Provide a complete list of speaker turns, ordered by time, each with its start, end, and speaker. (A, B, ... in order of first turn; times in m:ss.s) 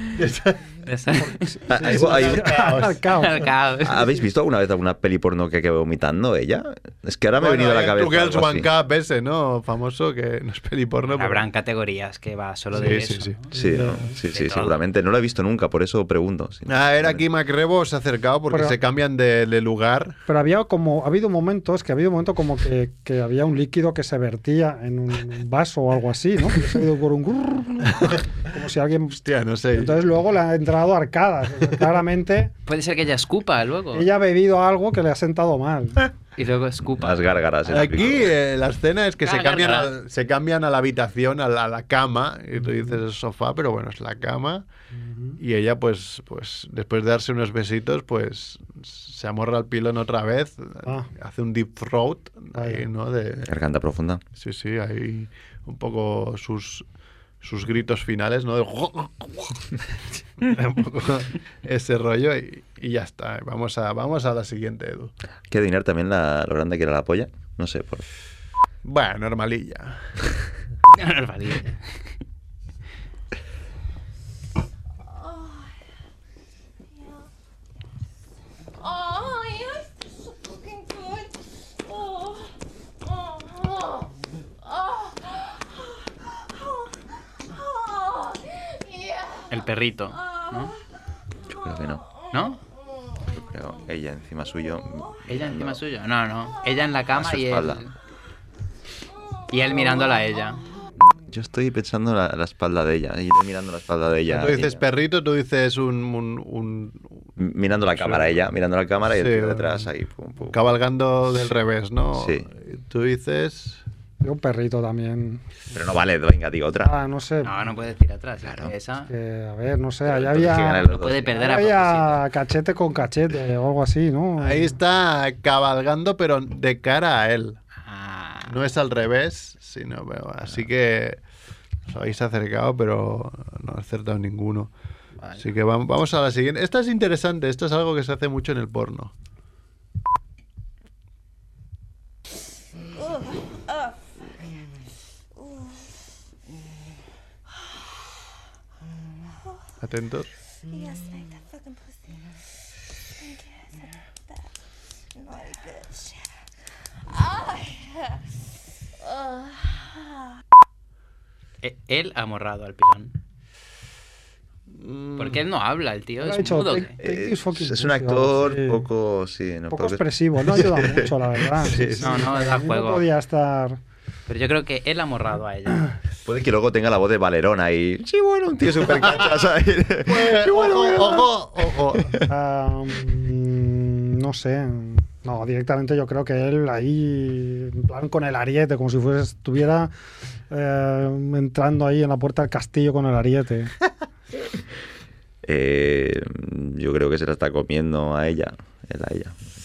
0:00.2-0:00.6 A
0:00.8-0:01.6 B
0:01.2-0:03.5 C
0:01.7-0:02.6 D
0:01.8-0:03.0 A
0:03.1-0:04.0 B
0:03.8-0:08.7 D
0:07.4-0:11.4 A
0:11.1-0:13.5 B
0:12.7-0:13.4 A
0:13.5-0:14.2 C
0:13.5-0:17.2 D
0:14.3-0:14.8 B
0:16.7-0:20.2 A
0:20.3-0:32.5 C
0:29.2-0:30.0 A
0:32.7-0:34.1 B
0:33.9-0:36.0 C
0:36.4-0:37.4 B
0:36.9-0:38.3 D
0:37.7-0:44.6 A
0:39.2-0:39.9 B
0:45.0-0:45.4 C
0:45.4-0:53.5 A
0:52.5-0:52.8 C
0:53.4-0:54.2 D
0:54.4-0:56.8 A
0:57.4-0:59.6 A
1:00.4-1:05.1 A
1:05.5-1:08.0 D
1:08.8-1:10.0 A
1:10.9-1:11.8 B
1:15.0-1:15.7 E
1:16.9-1:17.2 E
1:18.8-1:24.1 E
1:24.6-1:30.7 E
1:29.5-1:30.7 B
1:31.5-1:32.0 D
1:32.3-1:32.6 B
1:32.5-1:33.0 E
1:33.3-1:35.8 D
1:35.3-1:37.9 B
1:37.1-1:37.8 D
1:39.5-1:40.6 B
1:41.0-1:44.8 D
1:44.3-1:47.1 A
1:47.4-1:50.7 D
1:47.9-1:48.3 A
1:49.1-1:49.9 A
1:50.5-1:53.8 A
1:52.1-1:52.5 D
1:54.2-1:55.4 C
1:55.7-1:56.9 D
1:56.8-1:57.5 C
1:57.4-1:59.1 B
1:58.4-1:58.7 D
1:59.1-2:04.8 C
2:00.0-2:01.3 D
2:00.7-2:02.2 B
2:04.4-2:07.6 A
2:07.8-2:08.6 B
2:08.4-2:11.2 A
2:11.9-2:14.7 A
2:15.4-2:19.1 A
2:23.0-2:23.9 E
2:29.8-2:30.3 A
2:30.7-2:32.3 E
2:33.2-2:34.4 E
2:35.1-2:36.2 E
2:37.1-2:38.2 E
2:39.0-2:39.9 E
2:41.6-2:43.1 B
2:44.7-2:45.4 A
2:45.2-2:46.9 B
2:46.2-2:48.8 C
2:47.0-2:51.1 D
2:49.7-2:53.8 C
2:51.6-2:52.3 A
2:52.0-2:53.0 B
2:54.3-2:55.9 B
2:56.2-3:02.3 D
2:58.9-2:59.4 A
3:00.0-3:02.2 A
3:02.3-3:09.9 C
3:10.5-3:13.7 C
3:15.4-3:19.3 D